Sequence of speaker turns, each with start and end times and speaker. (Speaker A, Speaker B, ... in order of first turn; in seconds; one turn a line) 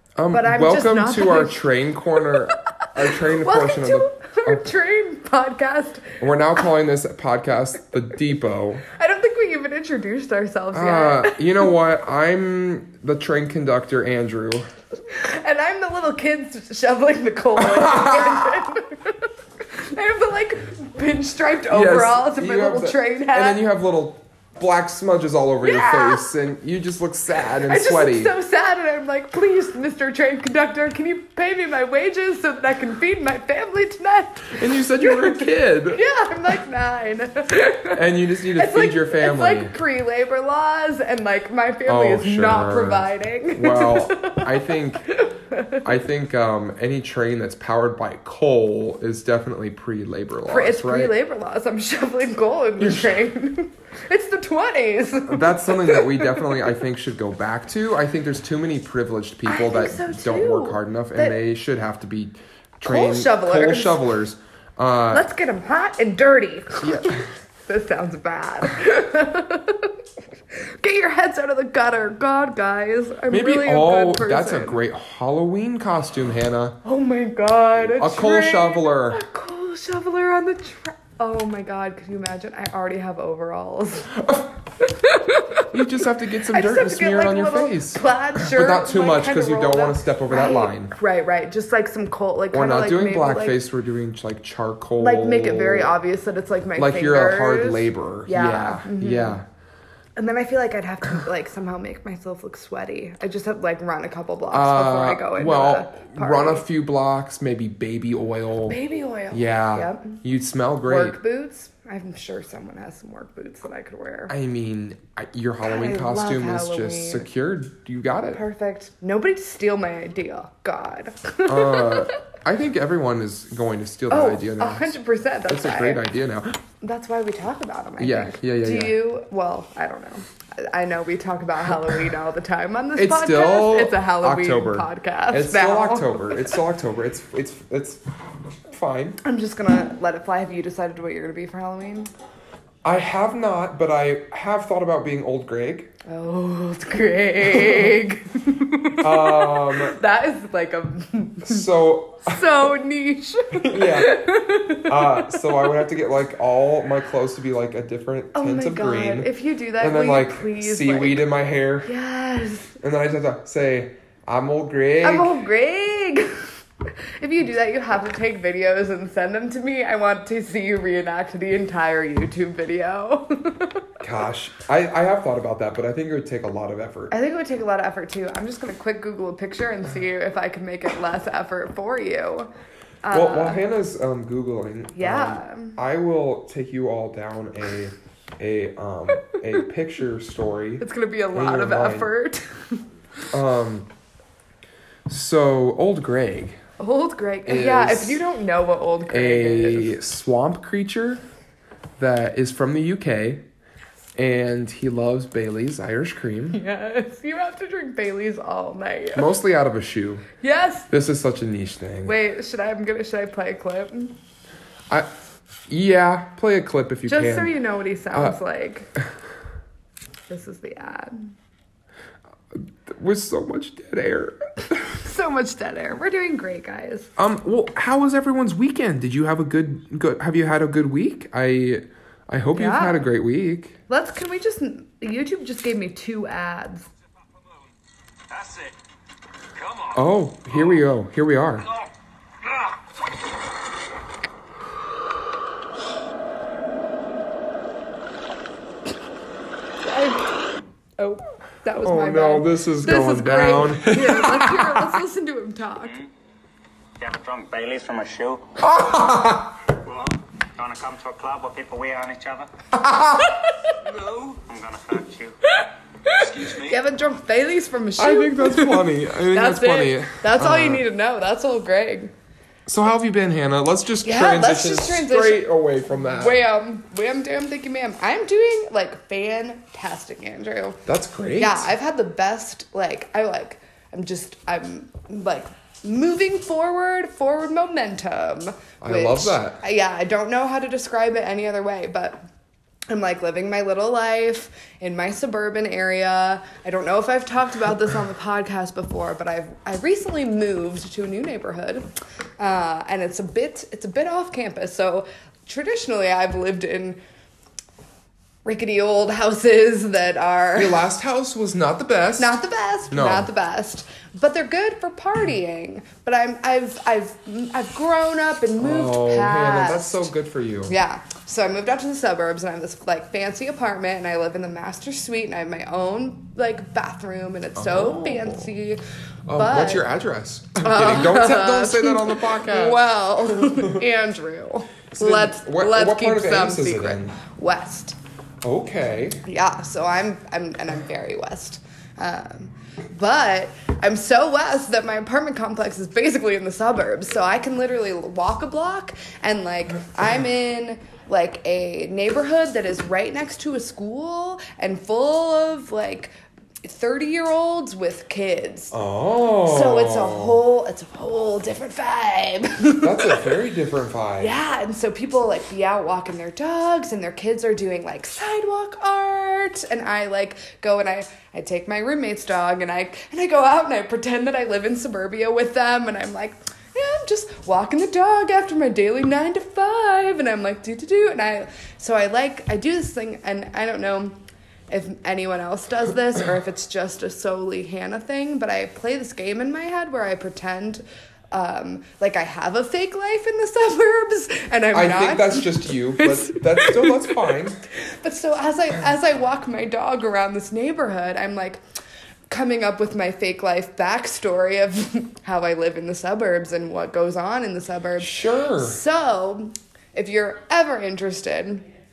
Speaker A: 0.1-4.7
Speaker B: 0.3-2.5
Speaker B: 3.1-6.2
Speaker A: 6.2-8.8
Speaker B: 8.8-11.4
Speaker A: 10.7-14.7
Speaker B: 15.1-23.6
Speaker A: 17.6-18.6
Speaker A: 21.7-28.3
Speaker B: 25.6-26.3
Speaker B: 27.6-38.0
Speaker A: 34.5-36.0
Speaker A: 37.9-39.8
Speaker B: 38.5-45.8
Speaker A: 41.9-45.1
Speaker A: 45.8-51.1
Speaker B: 50.5-56.7
Speaker A: 52.8-53.1
Speaker A: 55.3-65.3
Speaker B: 59.5-61.4
Speaker B: 62.8-64.0
Speaker B: 65.1-69.9
Speaker A: 66.8-67.2
Speaker B: 70.5-74.8
Speaker A: 73.3-76.8
Speaker B: 76.8-84.2
Speaker A: 78.0-79.2
Speaker A: 84.2-84.5
Speaker B: 84.8-93.6
Speaker A: 85.7-90.9
Speaker A: 92.5-95.9
Speaker B: 95.0-99.4
Speaker A: 96.8-99.4
Speaker B: 100.2-106.6
Speaker A: 104.5-108.8
Speaker B: 108.7-110.2
Speaker A: 109.3-111.2
Speaker B: 110.8-114.3
Speaker A: 114.3-118.4
Speaker B: 115.6-117.2
Speaker B: 118.3-122.1
Speaker A: 121.5-126.6
Speaker B: 124.1-126.0
Speaker B: 126.8-136.6
Speaker A: 128.0-129.0
Speaker A: 132.9-138.0
Speaker A: 138.7-139.2
Speaker B: 139.2-142.1
Speaker A: 142.8-145.9
Speaker B: 146.0-151.7
Speaker A: 147.5-147.9
Speaker A: 149.0-150.0
Speaker A: 151.4-152.4
Speaker B: 152.2-155.8
Speaker A: 153.5-154.3
Speaker A: 154.8-161.9
Speaker B: 158.3-161.2
Speaker B: 161.8-162.7
Speaker A: 162.8-165.3
Speaker B: 165.0-166.4
Speaker B: 167.2-173.9
Speaker A: 174.0-177.1
Speaker B: 177.1-182.5
Speaker B: 183.0-183.7
Speaker A: 183.1-192.1
Speaker B: 184.9-185.8
Speaker B: 189.2-189.5
Speaker B: 190.8-192.8
Speaker A: 193.3-193.9
Speaker A: 195.1-196.6
Speaker B: 196.8-200.0
Speaker A: 197.4-198.2
Speaker A: 199.1-201.2
Speaker A: 202.0-203.4
Speaker A: 204.2-206.6
Speaker B: 206.5-209.3
Speaker A: 209.1-210.2
Speaker B: 210.4-210.9
Speaker A: 210.9-212.1
Speaker B: 212.0-214.1
Speaker A: 215.7-217.5
Speaker B: 217.1-218.9
Speaker B: 220.3-221.3
Speaker A: 222.5-225.0
Speaker B: 225.0-227.1
Speaker A: 227.2-233.8
Speaker B: 232.5-233.0
Speaker B: 233.9-236.9
Speaker C: 238.3-238.7
Speaker C: 239.5-240.0
Speaker A: 239.9-241.7
Speaker B: 249.8-250.4
Speaker B: 251.0-255.9
Speaker A: 251.8-255.0
Speaker C: 255.8-256.1
Speaker C: 257.0-258.6
Speaker A: 258.6-259.6
Speaker C: 259.7-262.5
Speaker A: 262.7-263.4
Speaker C: 263.8-265.3
Speaker B: 266.1-272.1
Speaker C: 266.1-266.8
Speaker A: 268.0-270.9
Speaker A: 272.6-276.4
Speaker B: 274.0-280.8
Speaker A: 280.9-281.7
Speaker B: 281.4-292.2
Speaker A: 288.8-289.6
Speaker B: 292.9-301.9
Speaker B: 302.4-307.0
Speaker B: 308.4-310.8
Speaker A: 310.5-312.4
Speaker B: 312.2-320.1
Speaker A: 312.9-313.3
Speaker A: 318.6-320.8
Speaker B: 320.7-328.8
Speaker A: 327.6-328.5
Speaker A: 329.3-333.8
Speaker B: 329.3-329.9
Speaker B: 330.6-337.9
Speaker A: 334.9-337.2
Speaker A: 338.4-339.2
Speaker B: 339.2-356.1
Speaker B: 356.6-358.8
Speaker A: 358.7-360.4
Speaker B: 359.4-363.4
Speaker A: 362.8-364.4
Speaker B: 364.2-384.2
Speaker B: 384.7-401.6
Speaker A: 394.7-397.6
Speaker B: 402.3-411.6
Speaker A: 408.0-408.8